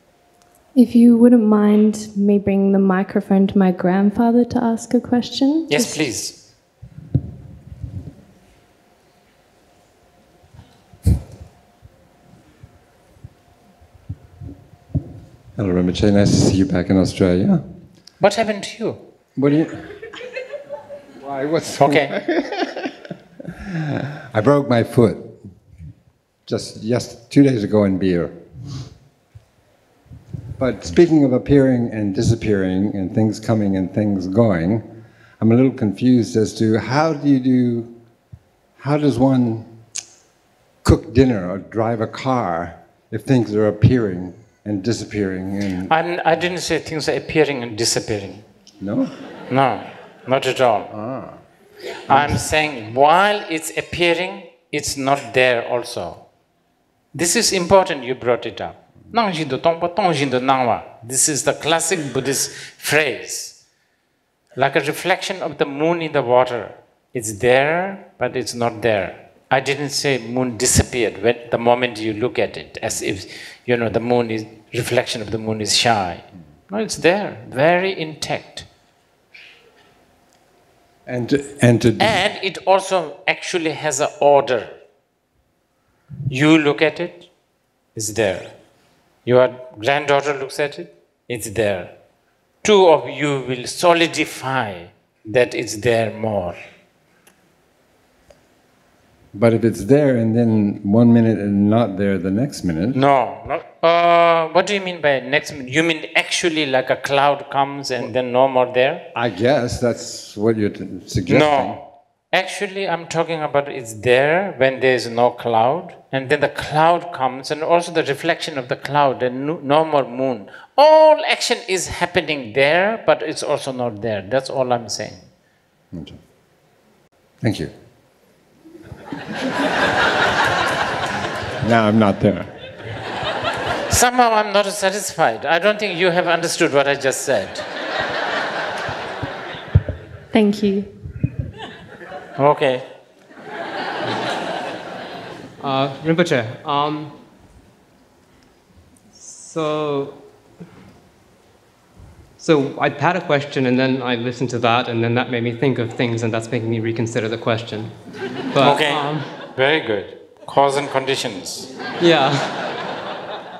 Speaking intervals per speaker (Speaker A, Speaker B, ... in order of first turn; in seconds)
Speaker A: 0.7-6.1, 140.3-141.1
Speaker B: 5.7-6.4, 18.2-19.0, 21.8-22.1, 45.9-48.4, 49.5-50.9, 52.1-56.2, 57.1-63.6, 64.5-78.7, 82.0-84.8, 86.3-87.3, 87.9-88.5, 89.2-91.9, 92.6-96.6, 102.9-109.1, 111.3-125.2, 133.9-137.7, 142.4-142.8, 158.6-161.7
Speaker C: 15.6-17.6, 19.4-20.0, 21.2-22.7, 24.2-25.4, 26.4-28.5, 30.6-34.9, 35.4-37.9, 38.8-39.7, 40.8-45.9, 48.8-49.1, 50.9-51.4, 52.1-52.4, 81.0-82.2, 99.3-103.0, 109.1-111.8, 127.4-127.7, 131.6-132.5
Speaker D: 145.6-147.2, 149.1-150.2, 152.4-159.3, 162.0-162.6